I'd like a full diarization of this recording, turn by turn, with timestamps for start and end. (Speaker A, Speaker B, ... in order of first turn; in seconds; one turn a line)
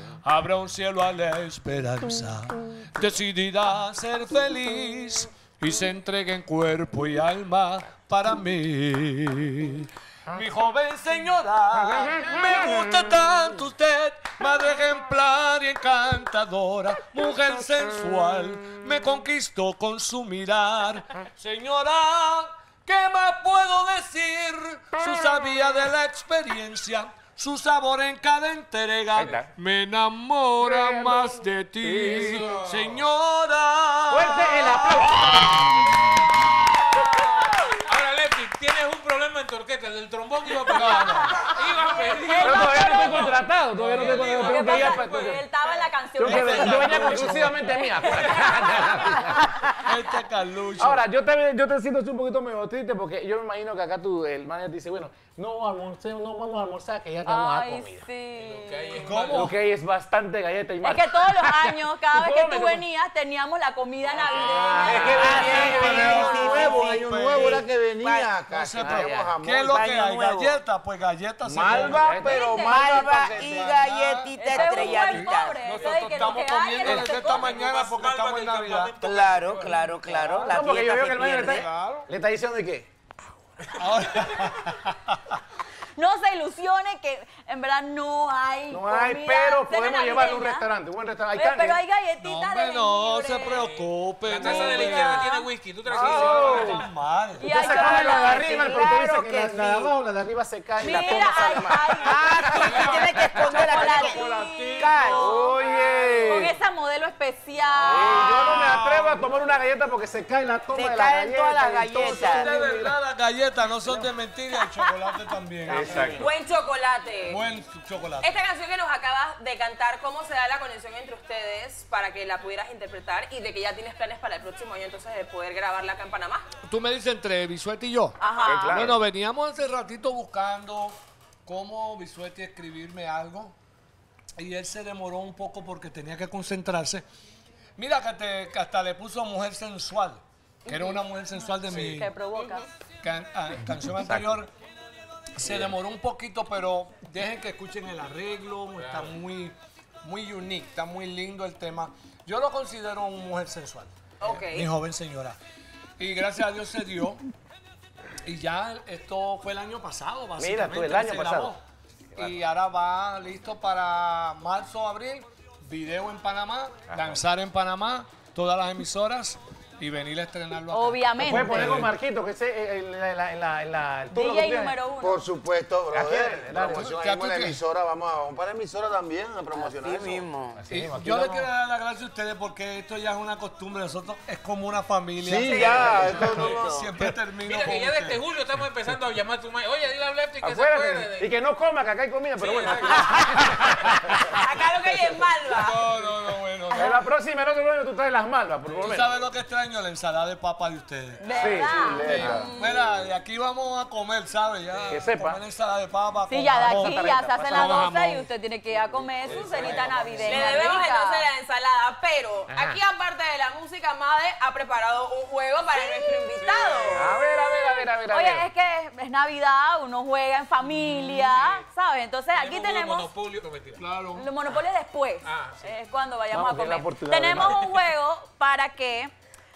Speaker A: 0.2-36.0
Speaker B: 29.1-29.5
Speaker B: 30.7-32.4
Speaker C: 32.0-33.0
Speaker B: 34.1-35.4
Speaker C: 37.8-45.4
Speaker A: 40.7-41.4
Speaker D: 41.9-43.4
Speaker B: 42.4-45.5
Speaker A: 43.8-44.2
Speaker D: 44.2-49.5
Speaker B: 46.2-49.7
Speaker A: 46.2-47.8
Speaker A: 49.8-51.0
Speaker B: 50.8-58.1
Speaker D: 57.3-59.3
Speaker C: 58.4-59.5
Speaker A: 59.0-59.5
Speaker B: 59.3-62.8
Speaker D: 60.8-66.9
Speaker B: 64.6-66.2
Speaker E: 64.7-69.8
Speaker C: 64.7-65.8
Speaker A: 65.2-67.7
Speaker F: 65.6-66.7
Speaker F: 68.0-68.4
Speaker A: 68.5-79.0
Speaker B: 68.8-69.3
Speaker F: 69.7-70.6
Speaker E: 71.5-72.8
Speaker B: 71.6-73.4
Speaker F: 72.1-75.7
Speaker D: 72.3-73.1
Speaker D: 74.4-77.6
Speaker C: 75.7-79.9
Speaker F: 79.0-81.7
Speaker B: 80.2-82.9
Speaker A: 81.5-82.1
Speaker A: 83.8-85.4
Speaker D: 86.0-90.7
Speaker B: 88.7-91.8
Speaker D: 91.3-93.7
Speaker A: 92.2-95.2
Speaker C: 93.5-96.9
Speaker D: 94.4-95.5
Speaker B: 95.9-96.9
Speaker A: 95.9-97.5
Speaker B: 97.4-103.0
Speaker D: 97.4-99.9
Speaker F: 98.7-99.4
Speaker D: 100.8-108.2
Speaker F: 102.0-105.4
Speaker A: 102.7-103.6
Speaker B: 105.1-106.5
Speaker B: 107.8-113.0
Speaker A: 108.0-109.3
Speaker F: 110.7-112.6
Speaker A: 112.0-116.3
Speaker B: 115.7-116.2
Speaker E: 115.7-116.2
Speaker G: 116.2-117.4
Speaker A: 117.2-118.4
Speaker G: 118.2-126.4
Speaker A: 126.7-133.6
Speaker G: 128.2-128.7
Speaker D: 128.2-128.8
Speaker B: 128.4-129.0
Speaker A: 134.4-137.1
Speaker A: 137.8-142.1
Speaker D: 140.7-141.0
Speaker C: 141.7-142.1
Speaker D: 142.0-142.7
Speaker A: 143.0-144.5
Speaker A: 145.4-155.4
Speaker C: 148.8-149.2
Speaker G: 154.2-154.7
Speaker A: 156.0-157.2
Speaker A: 158.3-161.6
Speaker B: 160.4-161.5
Speaker A: 162.2-171.9
Speaker D: 170.7-171.8
Speaker B: 171.2-174.8
Speaker D: 174.1-175.3
Speaker E: 175.0-180.3
Speaker B: 175.9-176.9
Speaker A: 176.7-177.6
Speaker F: 179.5-180.6
Speaker B: 180.6-181.5
Speaker A: 180.7-188.2
Speaker E: 185.2-186.9
Speaker C: 185.5-186.6
Speaker C: 187.4-191.3
Speaker B: 190.4-194.2
Speaker C: 192.4-193.9
Speaker A: 194.1-194.4
Speaker G: 194.3-195.9
Speaker A: 195.5-197.0
Speaker B: 196.7-199.2
Speaker A: 198.8-201.3
Speaker D: 201.2-202.9
Speaker B: 201.3-202.3
Speaker E: 201.3-202.5
Speaker A: 202.0-208.3
Speaker B: 204.9-205.4
Speaker D: 206.3-211.3
Speaker B: 206.6-207.9
Speaker B: 209.2-210.7
Speaker C: 209.3-209.9
Speaker G: 210.2-217.1
Speaker B: 212.5-212.8
Speaker D: 215.7-216.2
Speaker C: 216.4-217.0
Speaker B: 216.9-218.5
Speaker D: 217.0-223.1
Speaker C: 220.7-221.6
Speaker C: 222.3-223.8
Speaker A: 223.8-224.3
Speaker D: 224.2-229.1
Speaker C: 225.2-225.6
Speaker B: 226.3-227.7